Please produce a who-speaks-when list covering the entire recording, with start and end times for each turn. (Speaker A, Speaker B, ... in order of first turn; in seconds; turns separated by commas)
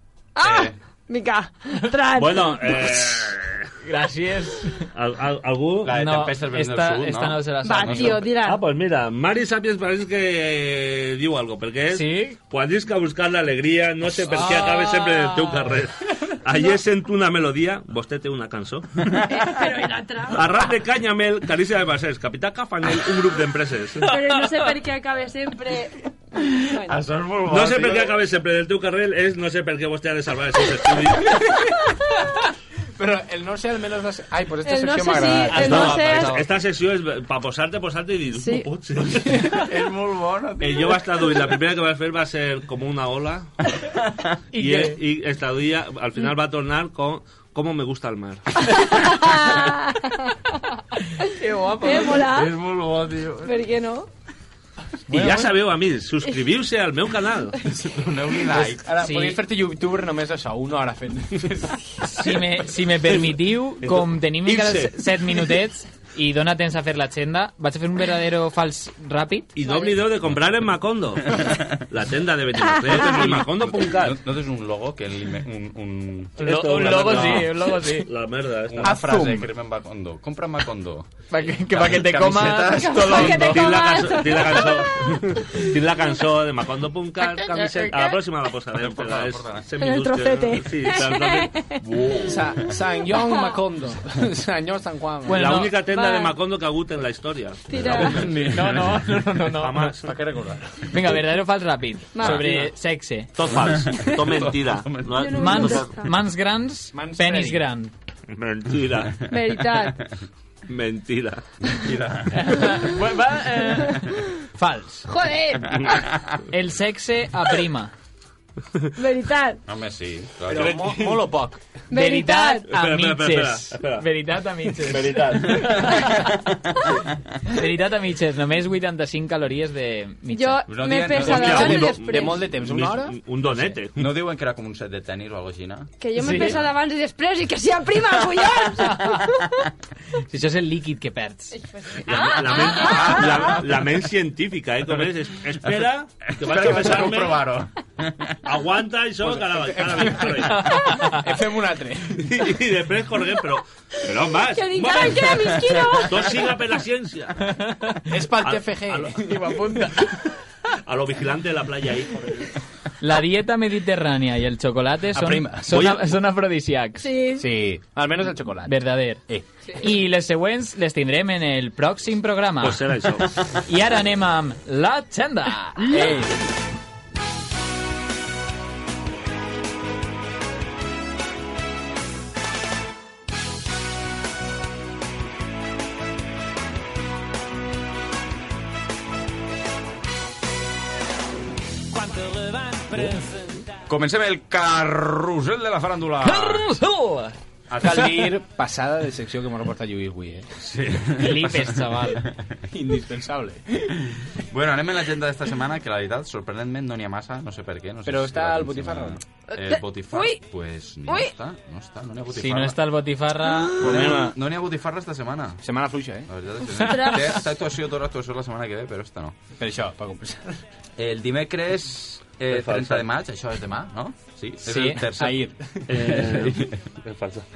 Speaker A: 0.4-3.3, Speaker B: 0.4-0.7, Speaker C: 2.2-3.7, Speaker D: 3.8-4.9, Speaker C: 4.9-6.0, Speaker B: 5.8-8.3, Speaker D: 5.9-8.3, Speaker A: 7.6-8.6, Speaker C: 8.4-19.0, Speaker D: 11.9-12.4, Speaker D: 14.3-15.6, Speaker A: 19.3-20.7, Speaker C: 20.3-24.1, Speaker A: 24.0-27.0, Speaker B: 26.4-28.2, Speaker C: 27.4-31.5, Speaker E: 33.0-36.0, Speaker A: 34.6-36.4, Speaker C: 35.5-39.6, Speaker B: 35.7-36.4, Speaker A: 38.3-38.7, Speaker B: 39.3-41.5, Speaker C: 40.6-43.5, Speaker D: 44.5-45.0, Speaker C: 44.5-48.6, Speaker A: 48.6-50.4, Speaker D: 51.3-52.3, Speaker A: 51.8-52.6, Speaker B: 52.4-53.5, Speaker A: 53.4-54.1, Speaker D: 55.1-55.5, Speaker C: 55.1-57.6, Speaker B: 57.7-58.9, Speaker E: 58.5-62.0, Speaker D: 59.0-59.4, Speaker D: 62.0-69.5, Speaker C: 63.8-65.0, Speaker C: 69.6-74.2, Speaker A: 69.6-70.0, Speaker B: 71.3-71.8, Speaker B: 72.9-77.5, Speaker D: 76.4-78.1, Speaker C: 76.4-79.0, Speaker B: 78.7-83.5, Speaker E: 78.8-79.5, Speaker D: 81.3-83.8, Speaker A: 82.7-85.2, Speaker C: 83.3-91.7, Speaker E: 87.6-87.9, Speaker B: 88.8-89.7, Speaker A: 89.8-92.2, Speaker B: 91.8-92.7, Speaker E: 92.2-95.5, Speaker A: 93.1-93.6, Speaker D: 95.3-95.7, Speaker C: 95.3-98.3, Speaker A: 95.8-96.4, Speaker A: 97.7-98.3, Speaker B: 97.7-99.0, Speaker E: 98.0-98.8, Speaker D: 98.5-99.9, Speaker C: 99.5-100.1, Speaker E: 99.8-101.0, Speaker D: 100.9-103.3, Speaker A: 102.1-102.7, Speaker C: 103.4-105.9, Speaker B: 103.5-105.4, Speaker A: 105.1-106.1, Speaker D: 105.3-107.9, Speaker E: 106.9-107.6, Speaker C: 108.3-109.2, Speaker A: 109.3-110.1, Speaker C: 110.7-111.4, Speaker B: 111.7-112.8, Speaker D: 112.3-115.1, Speaker A: 115.1-116.1, Speaker D: 116.5-117.9, Speaker A: 119.0-119.6, Speaker B: 119.7-121.0, Speaker E: 120.5-121.6, Speaker C: 120.5-121.3, Speaker A: 121.9-122.7, Speaker D: 121.9-126.2, Speaker C: 122.7-124.1, Speaker C: 124.8-126.1, Speaker B: 125.5-126.6, Speaker D: 127.5-130.6, Speaker A: 130.3-132.4, Speaker B: 130.7-131.8, Speaker E: 131.2-133.2, Speaker C: 131.2-134.0, Speaker B: 133.9-136.5, Speaker A: 136.0-139.5, Speaker D: 136.2-136.6, Speaker D: 138.8-139.2, Speaker D: 140.3-141.6, Speaker A: 141.5-143.6, Speaker C: 142.0-147.4, Speaker B: 142.8-143.9, Speaker B: 146.3-148.4, Speaker C: 148.4-150.8, Speaker E: 149.2-152.3, Speaker D: 150.6-151.2, Speaker C: 152.2-155.5, Speaker A: 154.5-156.5, Speaker C: 156.1-157.4, Speaker D: 157.4-158.0, Speaker E: 158.1-159.4, Speaker C: 158.4-159.2, Speaker D: 159.2-160.2, Speaker C: 160.8-162.6, Speaker D: 163.0-167.1, Speaker E: 165.1-165.8, Speaker C: 165.7-166.0, Speaker A: 167.0-167.5, Speaker E: 167.4-169.5, Speaker D: 168.7-169.2, Speaker D: 169.8-172.9, Speaker C: 172.6-173.4, Speaker D: 173.5-176.1, Speaker E: 175.8-176.4, Speaker E: 191.9-193.1, Speaker B: 193.9-196.7, Speaker D: 196.2-198.1, Speaker B: 197.7-198.1, Speaker E: 197.8-200.5, Speaker B: 200.6-202.3, Speaker D: 201.2-202.2, Speaker E: 202.7-203.9, Speaker B: 204.5-212.8, Speaker E: 208.1-209.2, Speaker A: 209.5-210.4, Speaker A: 211.1-211.3, Speaker D: 212.3-213.9, Speaker B: 213.8-215.6, Speaker E: 213.8-214.4, Speaker E: 215.6-216.3, Speaker B: 216.3-219.3, Speaker A: 216.7-217.5, Speaker E: 219.6-220.6, Speaker B: 221.0-226.9, Speaker C: 222.5-223.1, Speaker D: 224.6-225.1, Speaker E: 225.2-226.2, Speaker C: 225.9-227.5